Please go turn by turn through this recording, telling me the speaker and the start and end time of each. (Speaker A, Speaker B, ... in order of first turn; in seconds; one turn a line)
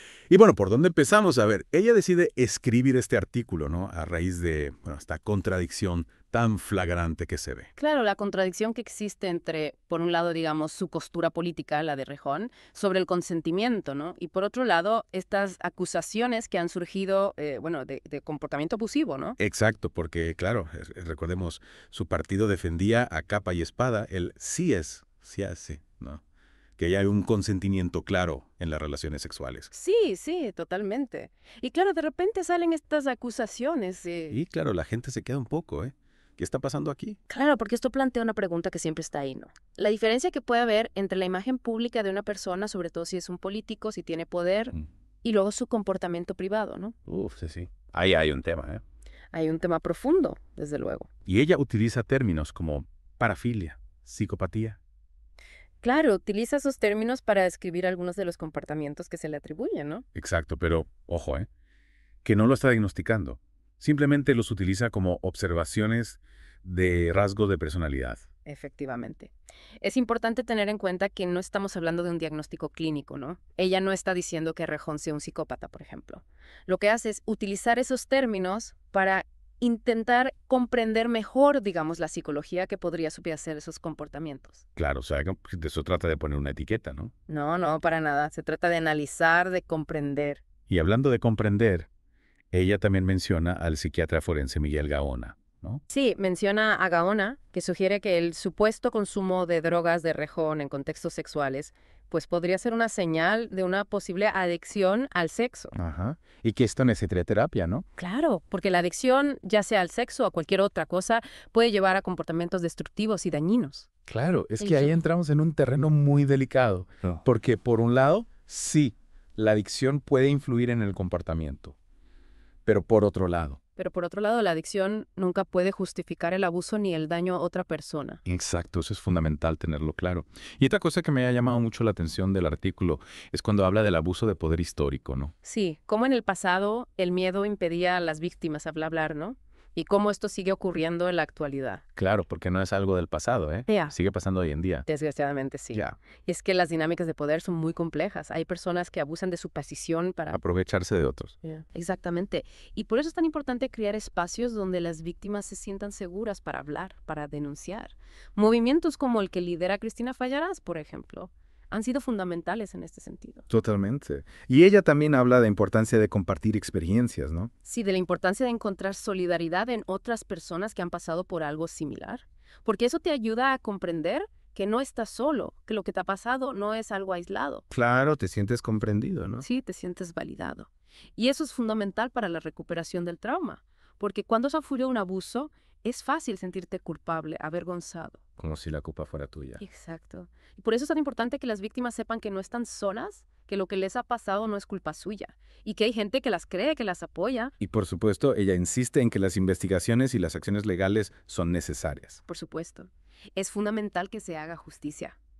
Speaker A: 0.3-7.7
Speaker B: 7.8-19.4
Speaker A: 19.4-26.2
Speaker A: 26.8-29.7
Speaker B: 29.7-34.4
Speaker A: 34.3-37.2
Speaker B: 37.3-46.9
Speaker A: 47.1-48.8
Speaker B: 49.3-51.1
Speaker A: 51.2-54.8
Speaker B: 55.8-60.0
Speaker A: 60.1-61.5
Speaker A: 62.2-68.2
Speaker B: 68.5-84.6
Speaker A: 84.8-87.1
Speaker B: 87.3-90.4
Speaker A: 90.7-91.9
Speaker A: 92.5-95.8
Speaker B: 95.9-105.7
Speaker A: 105.7-107.8
Speaker B: 108.0-113.9
Speaker A: 114.1-121.8
Speaker B: 114.6-114.9
Speaker A: 122.7-123.6
Speaker B: 123.8-128.2
Speaker A: 128.2-135.3
Speaker B: 135.4-141.8
Speaker A: 142.0-144.9
Speaker B: 143.7-143.9
Speaker B: 144.9-150.4
Speaker A: 145.7-146.0
Speaker A: 150.3-151.3
Speaker B: 151.4-163.4
Speaker A: 163.5-167.5
Speaker B: 167.7-177.6
Speaker A: 177.7-179.4
Speaker B: 179.4-188.2
Speaker A: 188.4-189.6
Speaker B: 189.6-197.5
Speaker A: 197.6-202.2
Speaker B: 202.3-205.2